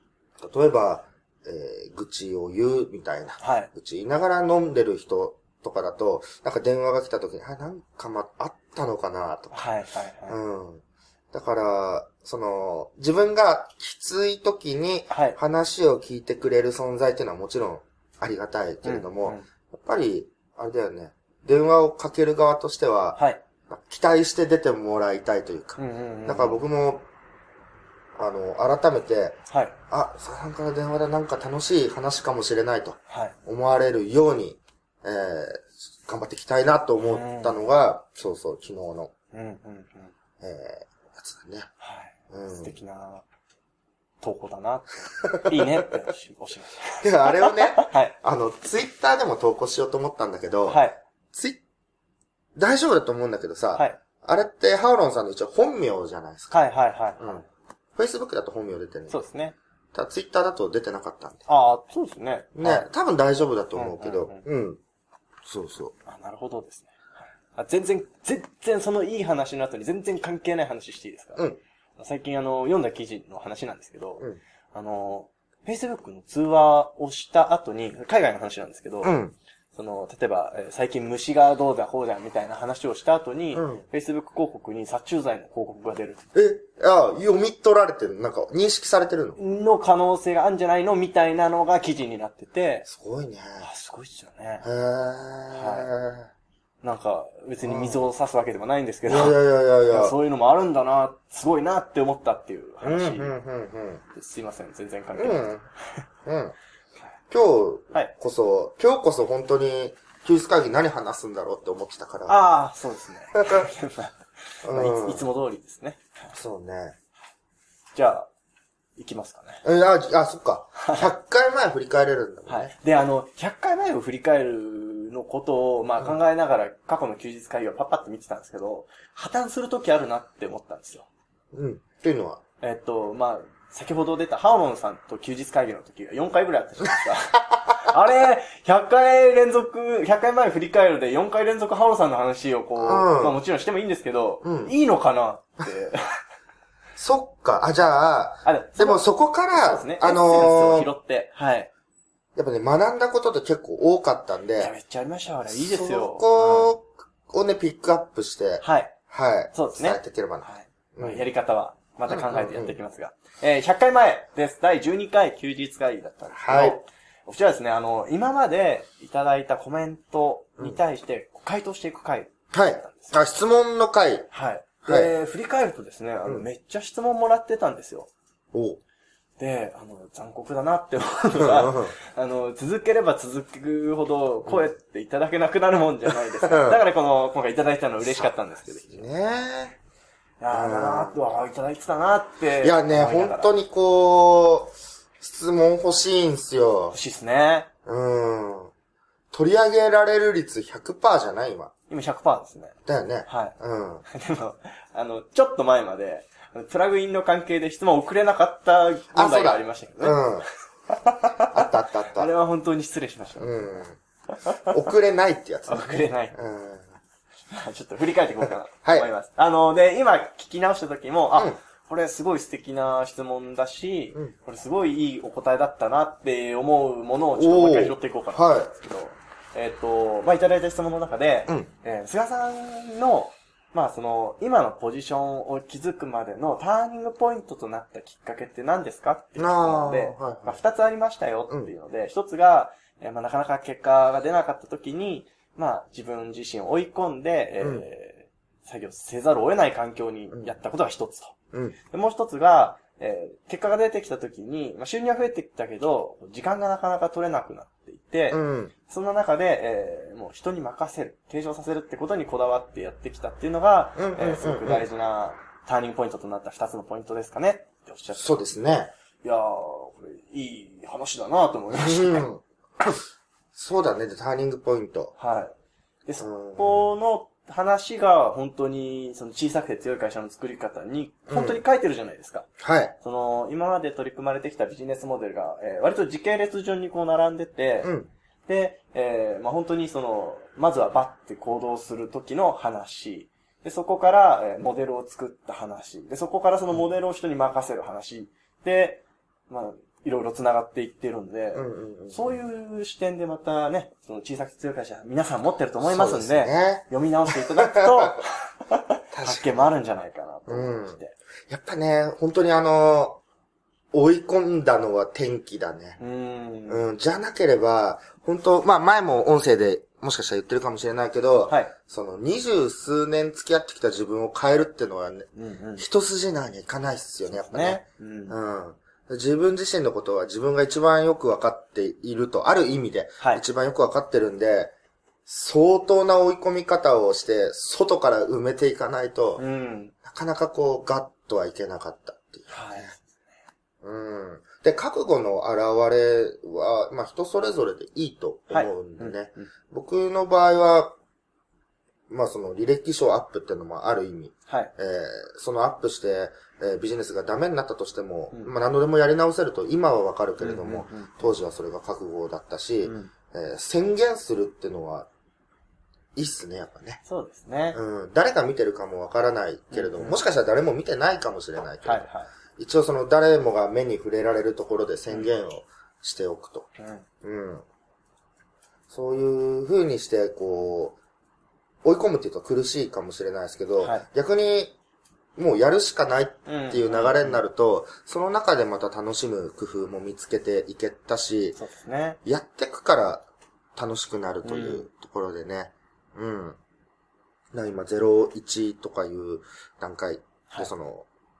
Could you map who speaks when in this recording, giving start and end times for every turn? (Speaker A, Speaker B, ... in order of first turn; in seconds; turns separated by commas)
Speaker A: 0.4-9.7, Speaker B: 3.4-3.7, Speaker B: 9.5-10.4, Speaker A: 10.3-27.1, Speaker B: 15.1-15.4, Speaker B: 18.8-19.4, Speaker B: 23.1-23.4, Speaker B: 25.8-26.6, Speaker A: 28.1-39.1, Speaker B: 29.5-29.7, Speaker B: 33.1-33.3, Speaker B: 37.1-37.6, Speaker B: 39.3-40.1, Speaker A: 40.4-41.7, Speaker B: 41.8-43.2, Speaker A: 42.3-42.8, Speaker B: 44.2-48.1, Speaker A: 45.3-45.7, Speaker A: 47.0-50.8, Speaker B: 50.7-51.0, Speaker A: 51.3-51.6, Speaker A: 52.5-56.5, Speaker B: 56.5-57.4, Speaker A: 57.2-57.4, Speaker A: 58.0-59.2, Speaker B: 59.1-59.5, Speaker A: 59.9-61.5, Speaker B: 61.5-62.9, Speaker A: 62.5-64.8, Speaker B: 63.7-64.4, Speaker A: 65.4-65.9, Speaker B: 66.0-71.5, Speaker B: 72.0-79.2, Speaker A: 79.0-79.3, Speaker B: 79.7-86.2, Speaker A: 83.5-83.8, Speaker A: 86.3-89.4, Speaker B: 89.4-92.9, Speaker A: 92.8-93.7, Speaker B: 93.6-94.6, Speaker A: 94.6-96.3, Speaker B: 95.5-95.9, Speaker B: 96.8-99.4, Speaker A: 97.6-98.0, Speaker A: 99.1-100.1, Speaker B: 99.9-103.3, Speaker A: 102.8-104.0, Speaker B: 104.1-106.0, Speaker A: 105.2-105.6, Speaker A: 106.2-106.5, Speaker A: 107.3-112.4, Speaker B: 112.3-116.3, Speaker A: 113.3-113.7, Speaker A: 114.6-115.2, Speaker A: 116.3-116.9, Speaker B: 117.9-118.3, Speaker B: 119.0-119.6, Speaker A: 119.6-122.7, Speaker B: 120.8-121.1, Speaker B: 122.5-131.1, Speaker A: 131.5-132.4, Speaker B: 132.6-146.2, Speaker A: 142.8-143.4, Speaker A: 144.4-144.7, Speaker A: 147.0-150.9, Speaker B: 148.4-151.7, Speaker A: 152.3-154.7, Speaker B: 154.6-156.7, Speaker A: 155.5-161.3, Speaker B: 158.6-158.9, Speaker B: 159.5-173.2, Speaker A: 162.1-162.8, Speaker A: 166.3-166.8, Speaker A: 172.5-174.3, Speaker B: 174.3-178.1, Speaker A: 174.8-175.1, Speaker A: 178.5-178.8, Speaker B: 179.4-189.1, Speaker A: 181.3-181.9, Speaker A: 186.4-186.8, Speaker A: 188.0-189.8, Speaker B: 190.4-193.5, Speaker A: 190.5-191.2, Speaker A: 192.6-197.0, Speaker B: 196.9-197.7, Speaker A: 197.8-198.7, Speaker A: 199.3-201.7, Speaker B: 201.9-202.8, Speaker A: 202.8-204.0, Speaker B: 203.3-213.7, Speaker A: 209.1-210.4, Speaker A: 211.5-212.3, Speaker A: 213.4-214.0, Speaker A: 214.6-216.9, Speaker B: 215.7-216.3, Speaker B: 217.5-268.4, Speaker A: 227.3-228.7, Speaker A: 239.4-240.6, Speaker A: 247.6-247.8, Speaker A: 258.3-258.7, Speaker A: 264.0-264.9, Speaker A: 268.2-268.9, Speaker B: 269.2-272.2, Speaker A: 271.7-272.9, Speaker A: 273.5-275.1, Speaker B: 275.2-275.5, Speaker B: 276.1-282.5, Speaker A: 276.2-276.9, Speaker A: 281.3-281.6, Speaker A: 282.6-282.9, Speaker B: 283.0-287.9, Speaker A: 287.8-288.1, Speaker B: 288.5-311.1, Speaker A: 301.5-302.4, Speaker A: 305.8-308.2, Speaker A: 309.1-309.7, Speaker A: 310.5-313.2, Speaker A: 313.9-316.0, Speaker B: 316.0-316.8, Speaker A: 316.7-334.7, Speaker B: 325.4-325.8, Speaker B: 327.2-328.4, Speaker A: 335.2-339.4, Speaker B: 339.4-339.9, Speaker A: 340.0-342.9, Speaker B: 342.5-343.0, Speaker A: 343.8-350.9, Speaker B: 348.5-349.5, Speaker A: 352.1-365.1, Speaker B: 360.4-361.3, Speaker B: 362.8-363.1, Speaker A: 366.1-367.0, Speaker B: 367.1-367.8, Speaker A: 367.7-372.0, Speaker B: 369.7-370.2, Speaker B: 371.8-372.3, Speaker A: 372.6-376.7, Speaker B: 376.8-377.1, Speaker A: 377.2-377.6, Speaker A: 378.9-381.0, Speaker A: 381.8-384.8, Speaker B: 383.8-384.1, Speaker A: 385.4-391.6, Speaker B: 386.4-387.4, Speaker B: 391.6-392.2, Speaker A: 392.2-396.6, Speaker B: 394.4-394.8, Speaker A: 397.5-401.1